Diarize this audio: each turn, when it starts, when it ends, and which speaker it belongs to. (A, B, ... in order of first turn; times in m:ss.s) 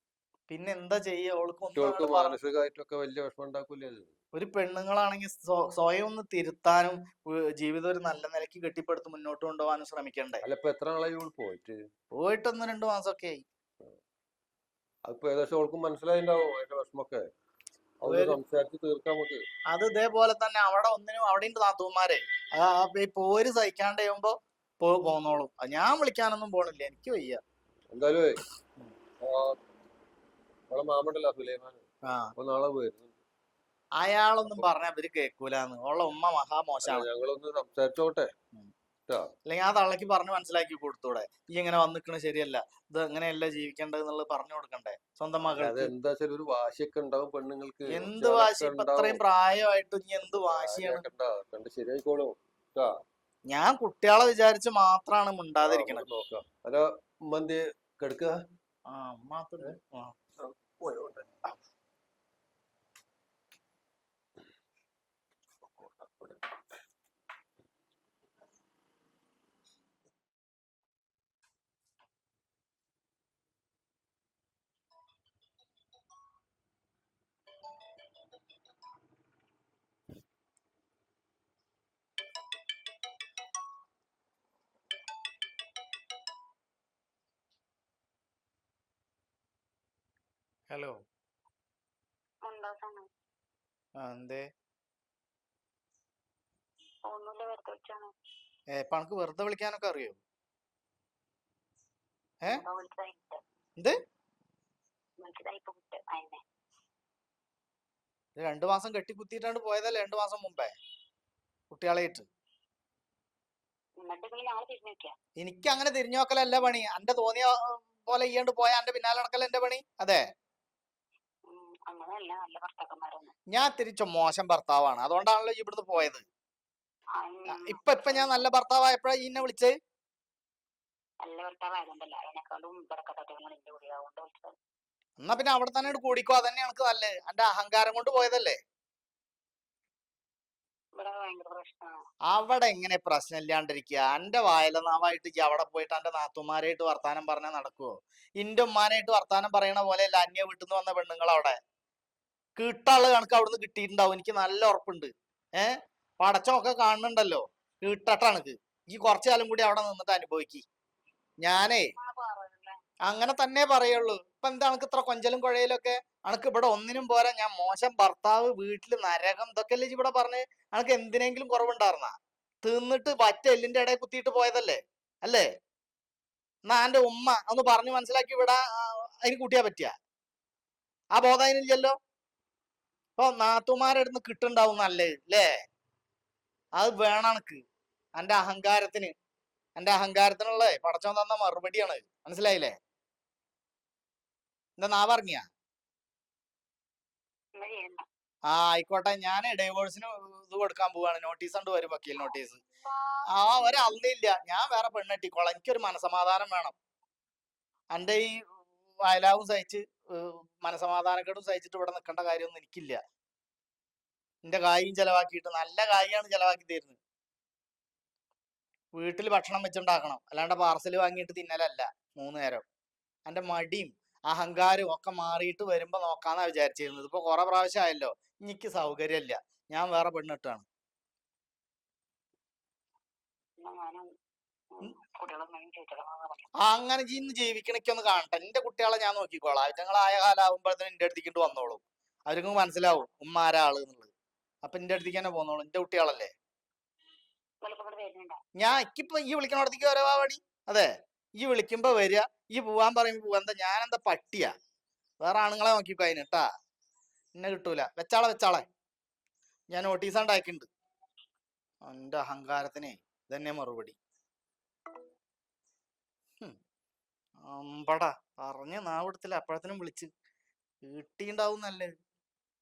0:00.5-0:02.4 A
0:01.8-0:04.1 B
0:04.3-0:10.4 A
0:10.4-0:11.8 B
0:12.2-0:13.4 A
0:15.1-0:17.2 B
0:18.0-0:19.4 B
0:18.0-0:18.4 A
0:19.7-0:27.4 A
0:27.9-0:28.4 B
0:29.2-0:29.6 B
0:30.7-0:31.8 B
0:32.1-0:32.3 A
0:32.4-0:33.2 B
0:34.0-0:37.1 A
0:36.8-0:38.3 B
0:39.5-0:45.9 A
0:45.4-0:49.2 B
0:47.9-0:51.0 A
0:50.2-0:52.9 B
0:53.5-0:56.1 A
0:55.6-0:58.4 B
0:58.9-1:00.1 A
1:00.4-1:01.6 B
1:05.8-1:06.4 B
1:30.7-1:31.0 A
1:32.4-1:33.1 C
1:34.0-1:34.5 A
1:37.1-1:38.1 C
1:38.8-1:40.2 A
1:42.5-1:43.4 C
1:45.2-1:46.4 C
1:48.4-1:50.7 A
1:51.7-1:52.3 A
1:54.0-1:55.1 C
1:55.4-2:00.2 A
2:01.5-2:03.3 C
2:03.5-2:06.3 A
2:07.2-2:08.5 C
2:07.5-2:09.7 A
2:11.2-2:14.6 C
2:15.2-2:18.6 A
2:21.0-2:21.9 C
2:22.3-2:31.6 A
2:32.6-2:40.6 A
2:41.4-2:41.9 A
2:42.0-2:42.8 C
2:43.1-2:55.5 A
2:56.7-3:00.0 A
3:01.1-3:02.0 A
3:03.2-3:05.5 A
3:06.8-3:07.6 A
3:08.2-3:09.1 A
3:09.8-3:12.7 A
3:14.8-3:15.5 A
3:17.6-3:18.0 C
3:18.5-3:22.6 A
3:22.2-3:23.7 C
3:23.3-3:26.8 A
3:27.9-3:28.5 A
3:29.0-3:33.0 A
3:34.4-3:37.0 A
3:39.0-3:42.7 A
3:43.3-3:50.6 A
3:53.6-3:54.0 C
3:54.8-3:56.5 C
3:56.6-4:04.1 A
4:04.6-4:06.3 A
4:07.6-4:08.4 C
4:08.6-4:14.5 A
4:15.2-4:16.5 A
4:17.4-4:18.7 A
4:19.7-4:20.7 A
4:21.9-4:24.0 A
4:27.5-4:30.1 A
4:30.9-4:31.9 A